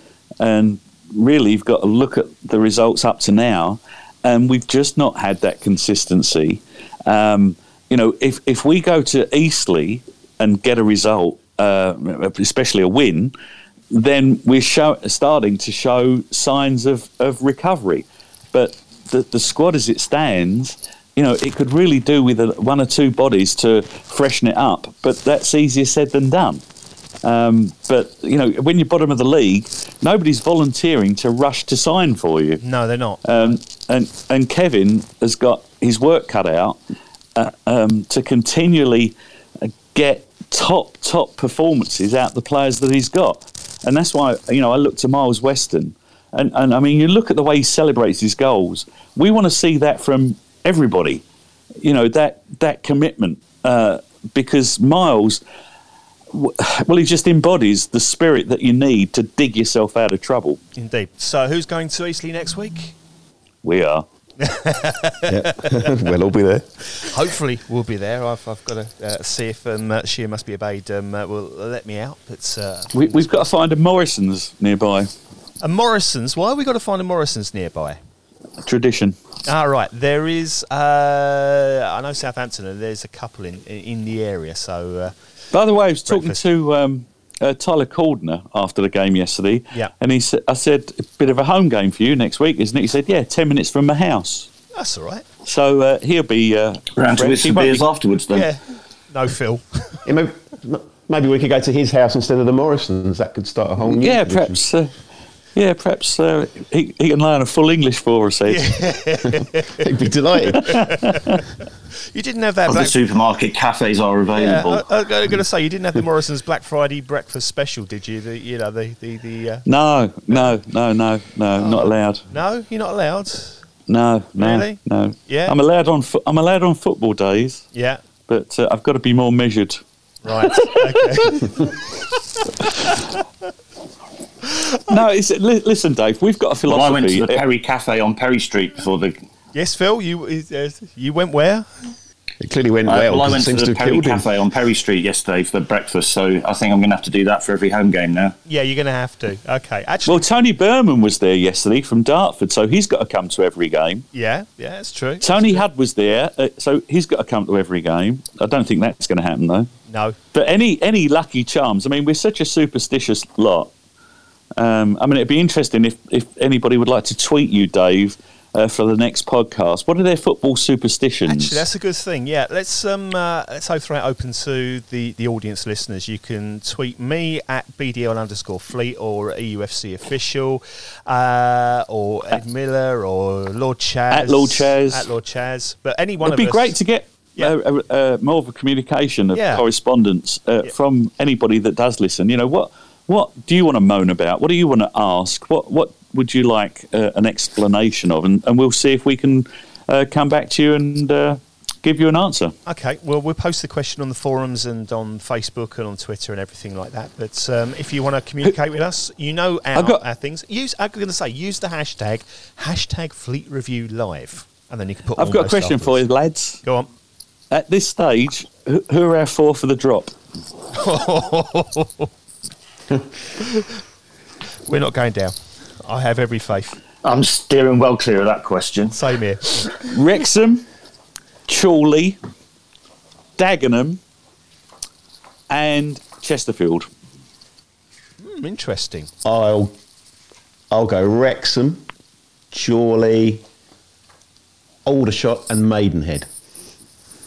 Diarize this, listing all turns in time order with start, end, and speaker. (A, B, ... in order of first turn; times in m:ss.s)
0:00.4-0:13.3 A
0:13.9-0:26.6 A
0:27.2-0:32.6 A
0:32.6-0:33.6 B
0:33.2-0:36.8 A
0:37.4-0:51.2 A
0:51.8-0:55.4 A
0:56.3-1:00.6 A
1:00.8-1:03.0 B
1:03.6-1:04.0 A
1:04.4-1:05.9 B
1:05.3-1:06.7 C
1:07.0-1:13.5 B
1:12.9-1:15.1 A
1:15.6-1:18.0 B
1:18.6-1:19.2 A
1:19.5-1:25.1 B
1:25.5-1:34.5 A
1:26.1-1:26.4 B
1:34.8-1:35.2 B
1:35.4-1:37.8 A
1:37.0-1:38.5 D
1:38.3-1:40.0 B
1:40.0-1:44.6 C
1:43.9-1:44.9 A
1:45.6-1:48.6 A
1:48.5-1:49.9 B
1:49.8-1:50.7 C
1:50.5-1:51.4 B
1:50.7-1:51.2 A
1:52.1-1:53.0 B
1:52.7-1:54.8 D
1:54.3-1:59.6 B
1:59.7-2:02.2 A
2:00.3-2:00.6 B
2:01.6-2:03.6 B
2:03.9-2:07.6 A
2:04.4-2:05.6 B
2:07.7-2:08.0 B
2:08.3-2:09.8 A
2:10.2-2:13.2 B
2:10.4-2:11.7 A
2:14.9-2:17.4 A
2:16.6-2:19.2 D
2:19.5-2:21.9 B
2:22.4-2:24.3 C
2:22.9-2:28.4 D
2:28.5-2:30.2 B
2:30.1-2:34.1 A
2:34.1-2:35.6 B
2:35.2-2:39.7 A
2:39.9-2:40.2 B
2:40.3-2:43.7 A
2:44.6-2:51.6 A
2:51.3-3:06.8 B
3:04.1-3:05.1 A
3:06.2-3:22.5 A
3:09.3-3:09.6 B
3:22.7-3:36.1 B
3:29.8-3:30.0 A
3:35.2-3:36.6 A
3:36.6-3:36.9 B
3:37.5-3:40.1 A
3:40.7-3:42.1 B
3:43.4-3:43.7 B
3:44.7-3:46.8 B
3:47.0-3:49.0 D
3:48.9-3:49.7 B
3:49.8-3:50.6 A
3:51.5-3:52.2 A
3:53.4-3:54.0 A
3:55.5-3:56.9 A
3:58.2-3:59.1 B
3:59.2-3:59.7 C
4:00.7-4:01.8 C
4:02.5-4:03.4 C
4:04.8-4:06.3 C